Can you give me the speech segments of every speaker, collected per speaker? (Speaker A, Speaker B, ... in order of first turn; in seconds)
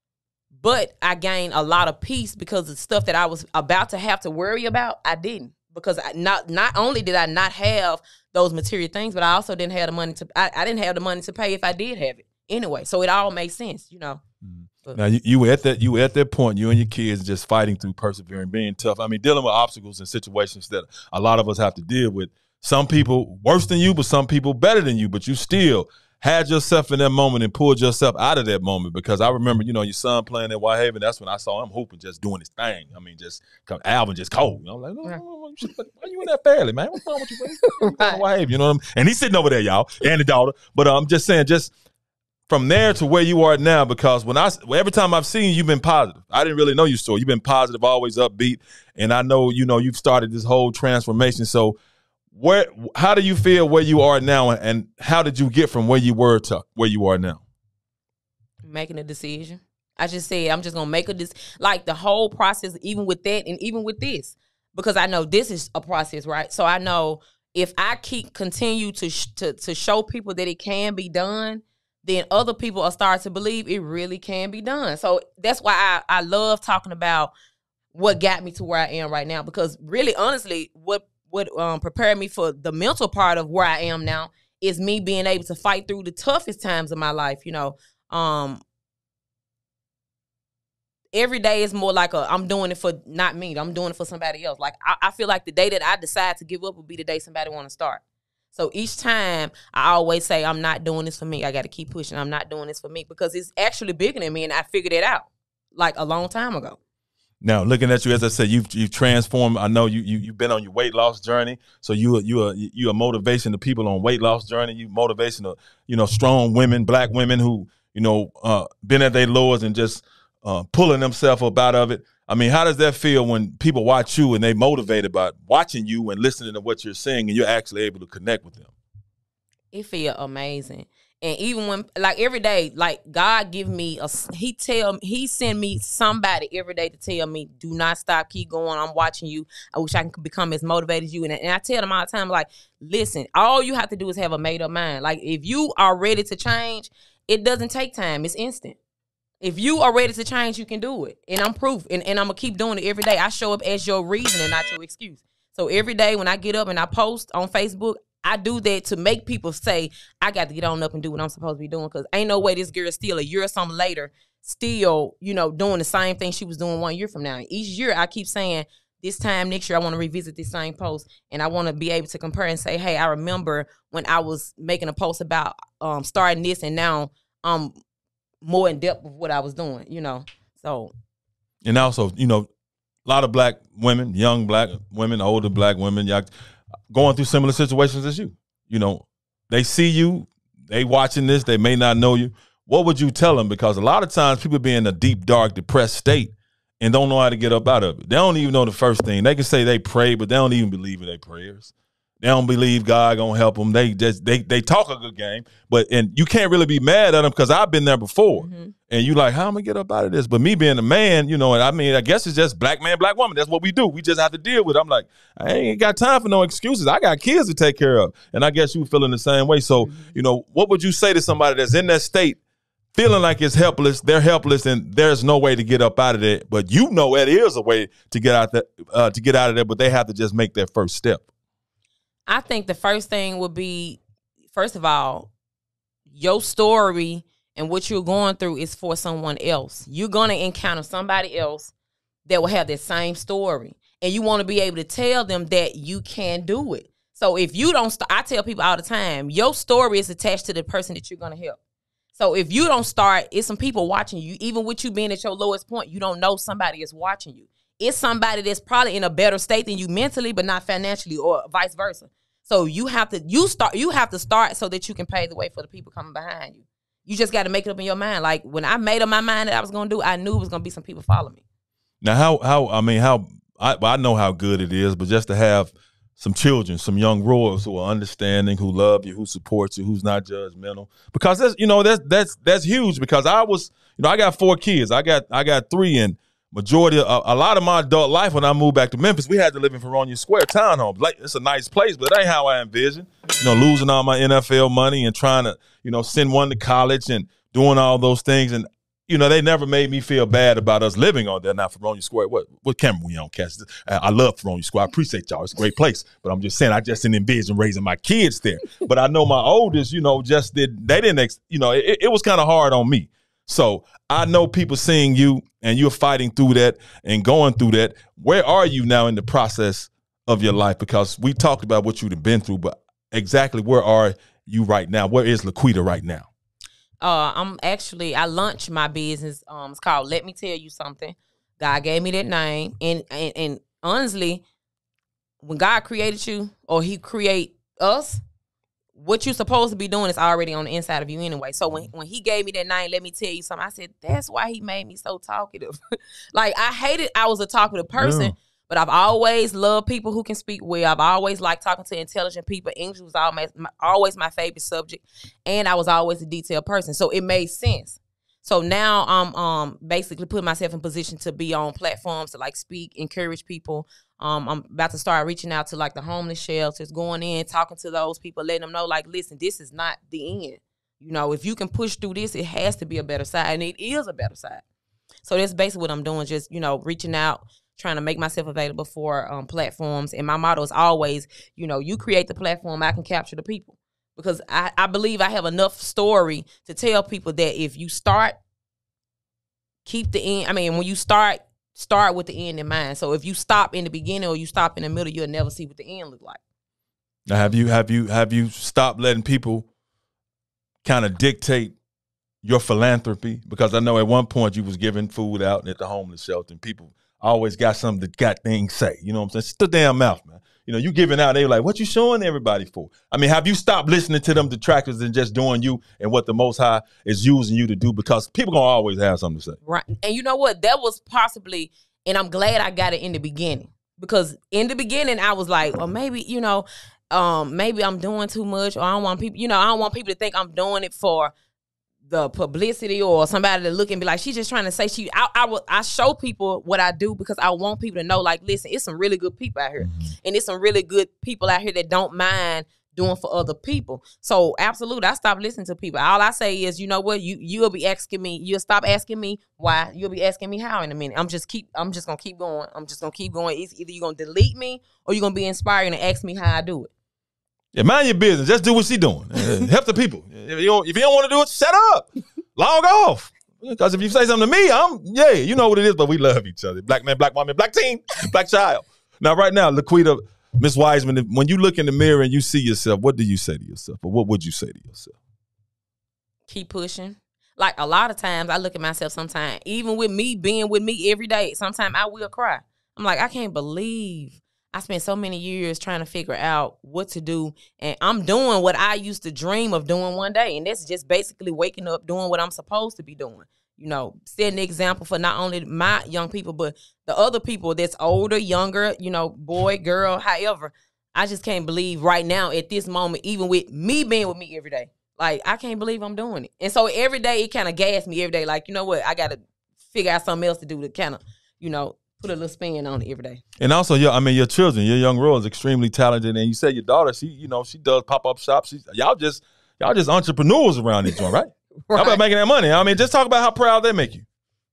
Speaker A: 0.5-14.2, 37.8-38.2, 58.6-77.3, 77.9-88.6, 91.1-98.0, 98.5-106.8, 129.7-148.8, 149.4-177.8, 178.4-180.9, 208.3-208.7, 219.8-220.2, 232.3-234.0, 234.5-235.3, 236.1-241.7, 242.3-251.6, 252.2-271.4, 327.0-334.4, 335.4-338.2, 338.9-345.8, 346.3-374.6, 375.2-388.4, 389.9-396.4, 419.6-431.3, 432.1-456.9, 476.5-513.4, 521.9-522.2
Speaker B: 14.4-41.7, 42.5-51.8, 52.3-57.4, 107.4-128.7, 181.6-182.5, 183.1-186.3, 186.9-201.7, 202.2-222.4, 222.9-231.2, 272.0-326.3, 348.0-348.3, 397.3-399.7, 400.8-401.8, 402.4-419.6, 439.8-440.1, 457.7-475.1, 513.6-524.2